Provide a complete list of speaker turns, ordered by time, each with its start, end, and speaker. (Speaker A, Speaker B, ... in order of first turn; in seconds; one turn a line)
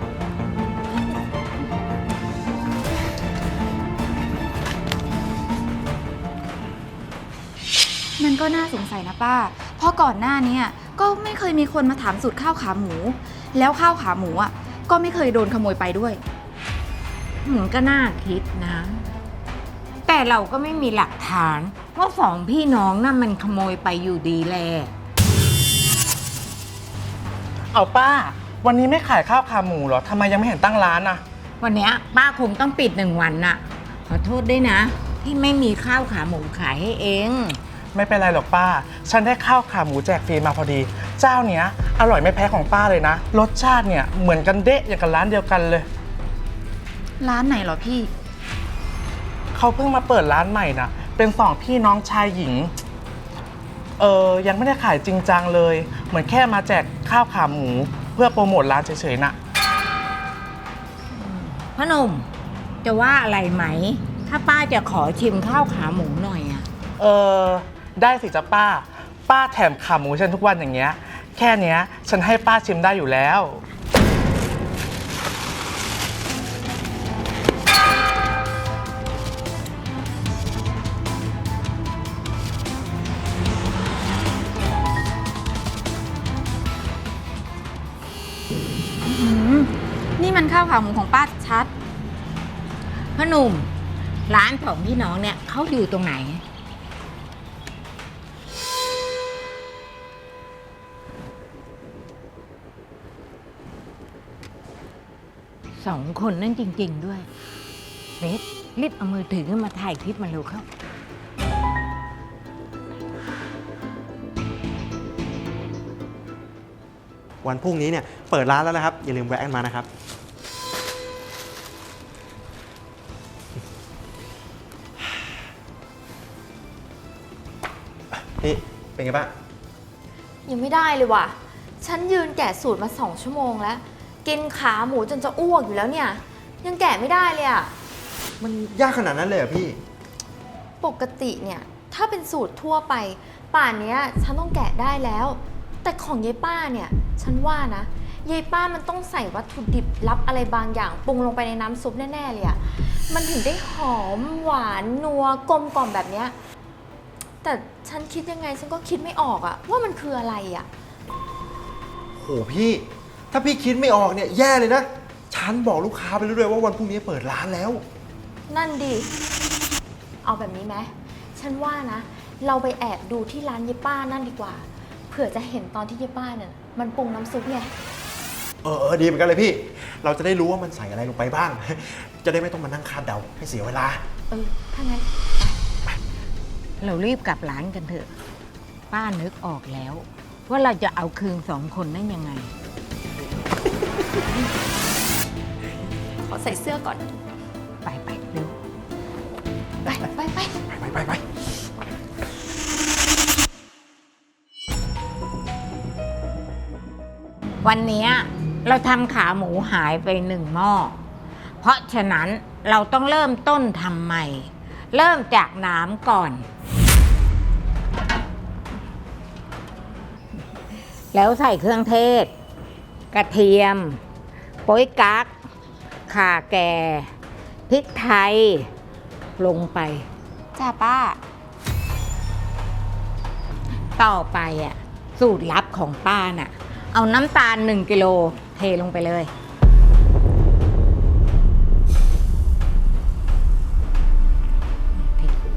Speaker A: 8.2-16.2
Speaker B: 17.4-19.1
Speaker B: 20.1-24.9
Speaker C: 27.7-31.2
Speaker B: 31.6-37.6
Speaker C: 37.9-45.9
Speaker A: 47.2-48.1
Speaker C: 49.5-52.7
Speaker C: 54.0-59.4
Speaker B: 61.1-62.3
Speaker B: 62.8-66.7
Speaker C: 67.0-73.6
Speaker A: 89.1-89.5
Speaker A: 90.2-91.7
Speaker B: 93.2-93.7
Speaker B: 94.3-96.4
Speaker B: 105.8-107.3
Speaker B: 108.2-110.7
Speaker D: 117.4-119.9
Speaker D: 128.4-129.3
Speaker E: 130.5-137.7
Speaker D: 138.4-139.8
Speaker E: 140.8-156.3
Speaker E: 157.4-160.7
Speaker D: 162.2-167.8
Speaker E: 168.5-169.1
Speaker E: 170.2-177.8
Speaker D: 178.6-184.0
Speaker E: 184.3-185.6
Speaker B: 186.8-188.1
Speaker B: 188.9-192.5
Speaker E: 196.3-197.1
Speaker B: 197.8-198.6
Speaker E: 199.9-200.5
Speaker D: 200.7-201.2
Speaker B: 207.6-211.0
Speaker B: 211.6-216.4
Speaker B: 221.1-222.3
Speaker B: 223.1-224.0
Speaker B: 224.7-225.3
Speaker B: 226.1-227.1
Speaker B: 227.7-228.7
Speaker B: 229.4-230.1
Speaker A: 230.6-231.2
Speaker B: 234.0-239.3
Speaker B: 244.9-245.3